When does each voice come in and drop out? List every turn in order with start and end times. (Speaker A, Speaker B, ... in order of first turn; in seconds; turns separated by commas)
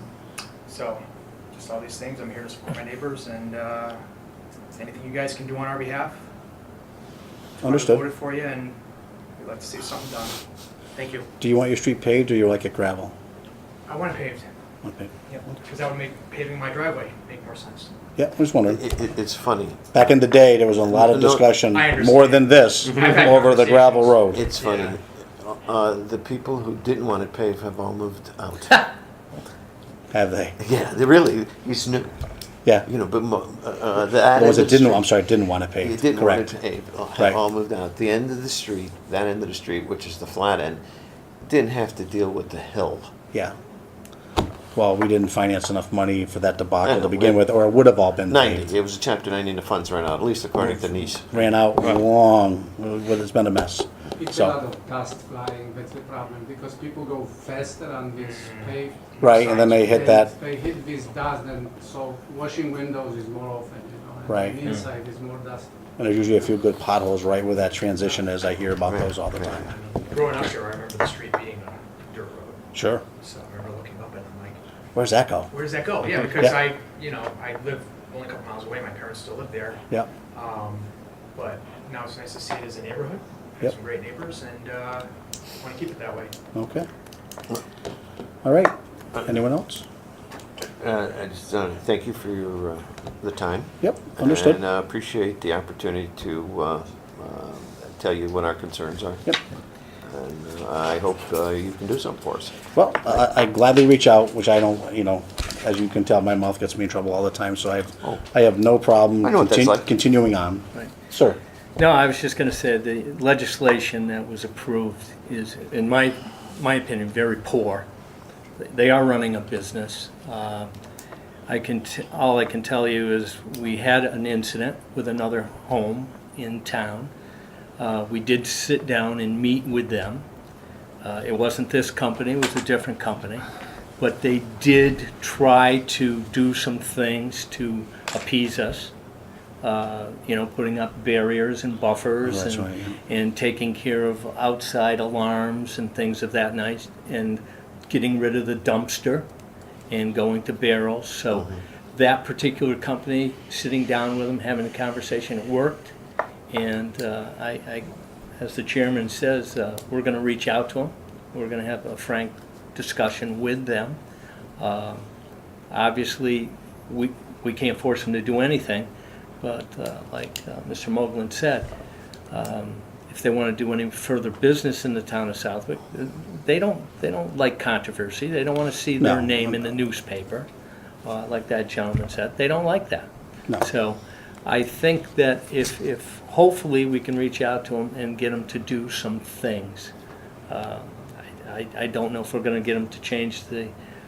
Speaker A: 0.7-4.0, Speaker A: 4.7-6.2, Speaker B: 7.6-8.0, Speaker A: 7.6-8.8, Speaker A: 9.4-10.4, Speaker A: 10.9-11.3, Speaker B: 11.4-13.1, Speaker A: 13.9-14.5, Speaker B: 14.8-15.1, Speaker A: 15.3-17.9, Speaker B: 18.2-18.8, Speaker C: 18.7-20.1, Speaker B: 19.9-24.4, Speaker C: 20.9-21.5, Speaker A: 21.7-22.4, Speaker D: 22.7-23.4, Speaker A: 23.0-24.9, Speaker C: 24.3-28.9, Speaker B: 30.1-30.6, Speaker C: 30.6-32.3, Speaker C: 32.8-35.1, Speaker B: 34.3-36.6, Speaker C: 35.8-40.8, Speaker C: 41.4-43.1, Speaker B: 44.7-48.7, Speaker C: 46.8-47.4, Speaker C: 48.3-52.0, Speaker B: 50.8-54.5, Speaker E: 54.1-65.8, Speaker B: 59.2-60.3, Speaker B: 64.3-64.6, Speaker B: 66.0-69.7, Speaker C: 68.9-69.6, Speaker A: 69.7-72.6, Speaker B: 72.7-73.0, Speaker A: 73.2-74.6, Speaker B: 75.0-75.5, Speaker A: 75.5-86.4, Speaker B: 86.5-86.9, Speaker B: 88.4-89.8, Speaker C: 90.6-99.3, Speaker B: 93.8-94.6, Speaker C: 100.0-102.6, Speaker B: 102.7-111.4, Speaker C: 109.2-109.9, Speaker D: 111.8-117.9, Speaker D: 118.6-120.7, Speaker D: 121.5-127.1, Speaker D: 127.8-130.3, Speaker D: 131.0-133.4, Speaker D: 134.0-138.9, Speaker D: 139.6-149.3, Speaker B: 142.2-143.0, Speaker D: 149.9-155.9, Speaker C: 151.3-151.6, Speaker D: 156.5-164.0, Speaker D: 164.6-165.1, Speaker D: 165.7-168.9, Speaker D: 169.4-171.7, Speaker D: 172.3-180.5, Speaker B: 179.0-179.7, Speaker D: 181.0-183.1, Speaker D: 183.6-189.9, Speaker D: 190.5-193.7